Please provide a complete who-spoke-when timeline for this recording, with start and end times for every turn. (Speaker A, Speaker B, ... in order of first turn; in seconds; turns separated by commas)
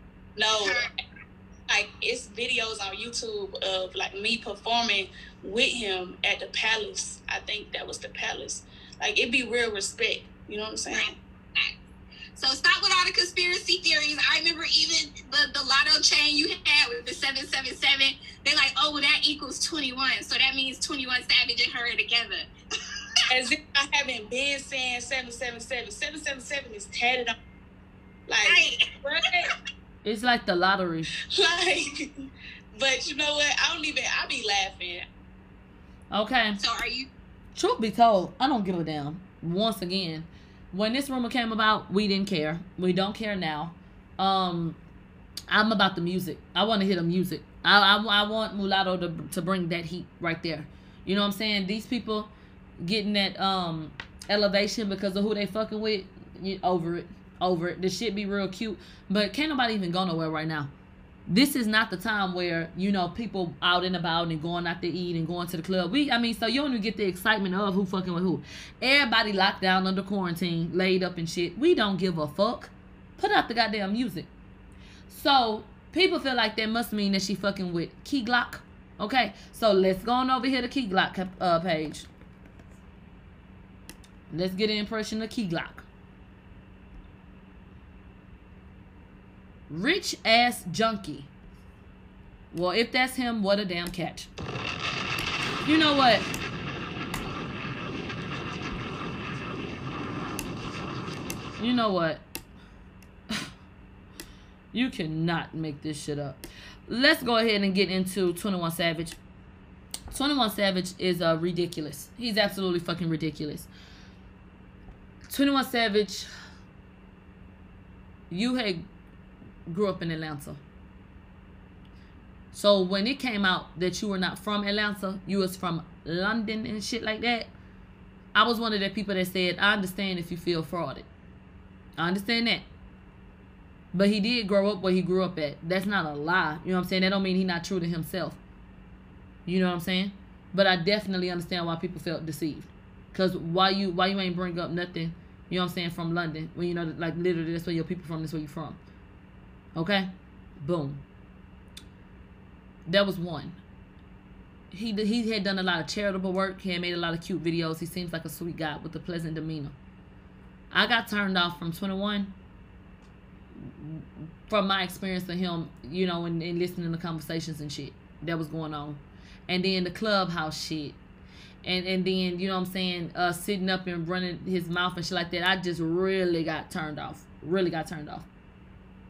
Speaker A: 0.4-0.8, Speaker B: 0.6-0.9, Speaker A: 1.7-11.1, Speaker B: 10.9-11.7, Speaker B: 12.3-22.5, Speaker A: 23.3-27.4, Speaker A: 28.3-29.5, Speaker B: 28.4-29.4, Speaker C: 30.0-31.1, Speaker A: 31.4-31.9, Speaker A: 32.8-35.0, Speaker C: 36.1-36.6, Speaker B: 36.6-37.1, Speaker C: 37.6-44.8, Speaker C: 45.5-60.7, Speaker C: 61.3-74.3, Speaker C: 75.1-82.1, Speaker C: 84.3-85.9, Speaker C: 89.7-91.3, Speaker C: 92.5-94.3, Speaker C: 95.7-96.3, Speaker C: 101.6-102.2, Speaker C: 104.7-109.2, Speaker C: 110.1-113.7, Speaker C: 115.3-116.3, Speaker C: 118.3-118.9, Speaker C: 119.7-120.6, Speaker C: 122.5-127.5, Speaker C: 128.3-131.1, Speaker C: 132.0-132.7, Speaker C: 133.9-138.4, Speaker C: 139.5-148.8, Speaker C: 149.8-151.0, Speaker C: 152.9-153.6, Speaker C: 154.7-159.8, Speaker C: 160.7-162.3, Speaker C: 163.6-171.0, Speaker C: 171.6-178.3